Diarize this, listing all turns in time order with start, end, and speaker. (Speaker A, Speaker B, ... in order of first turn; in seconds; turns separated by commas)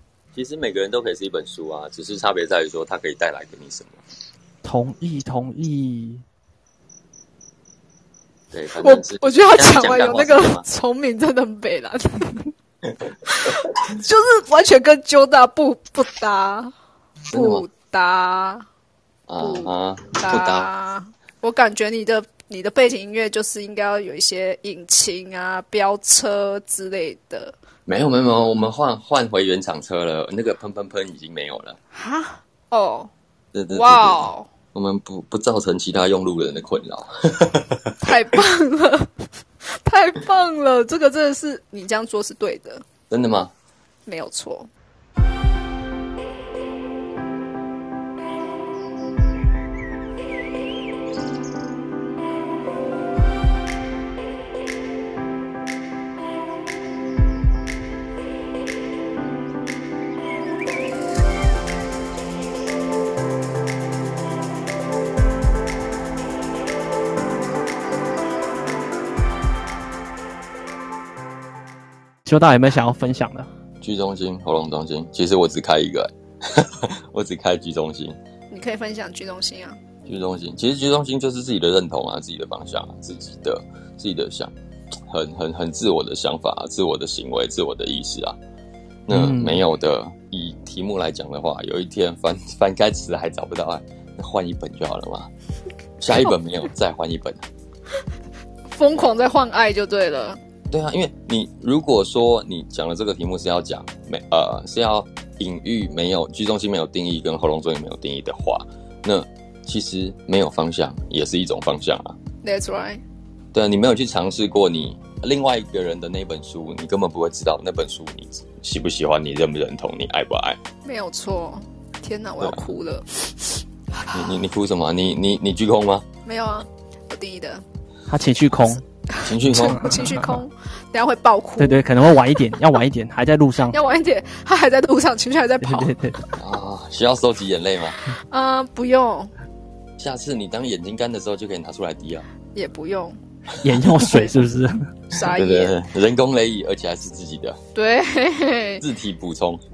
Speaker A: 0.3-4.0, Speaker B: 4.6-6.2, Speaker A: 8.5-10.6, Speaker C: 8.8-12.4, Speaker C: 13.2-16.7, Speaker A: 17.3-17.7, Speaker C: 17.3-18.6, Speaker A: 19.3-20.7, Speaker C: 19.4-27.6, Speaker A: 27.9-31.8, Speaker C: 31.9-33.1, Speaker A: 33.5-38.1, Speaker C: 33.7-34.5, Speaker C: 38.0-39.1, Speaker C: 39.7-42.8, Speaker A: 43.1-43.5, Speaker C: 44.0-44.7, Speaker B: 72.2-73.5, Speaker A: 73.8-78.2, Speaker C: 78.5-79.8, Speaker A: 80.1-84.5, Speaker A: 85.1-88.4, Speaker A: 89.1-95.3, Speaker B: 89.1-89.6, Speaker A: 96.0-97.4, Speaker C: 98.7-100.4, Speaker A: 100.7-112.2, Speaker C: 112.4-113.0, Speaker A: 113.5-120.6, Speaker C: 120.8-124.3, Speaker A: 122.4-122.7, Speaker A: 124.1-126.0, Speaker C: 126.2-127.6, Speaker B: 128.1-128.8, Speaker C: 129.1-131.8, Speaker A: 129.2-129.9, Speaker B: 129.5-130.4, Speaker B: 131.6-133.8, Speaker C: 133.7-135.9, Speaker B: 135.6-136.2, Speaker A: 136.4-138.0, Speaker C: 138.3-139.3, Speaker A: 140.0-142.2, Speaker C: 142.5-143.2, Speaker B: 143.6-144.9, Speaker A: 143.7-144.3, Speaker C: 145.1-145.8, Speaker A: 145.2-147.6, Speaker C: 147.7-148.8, Speaker A: 148.8-149.6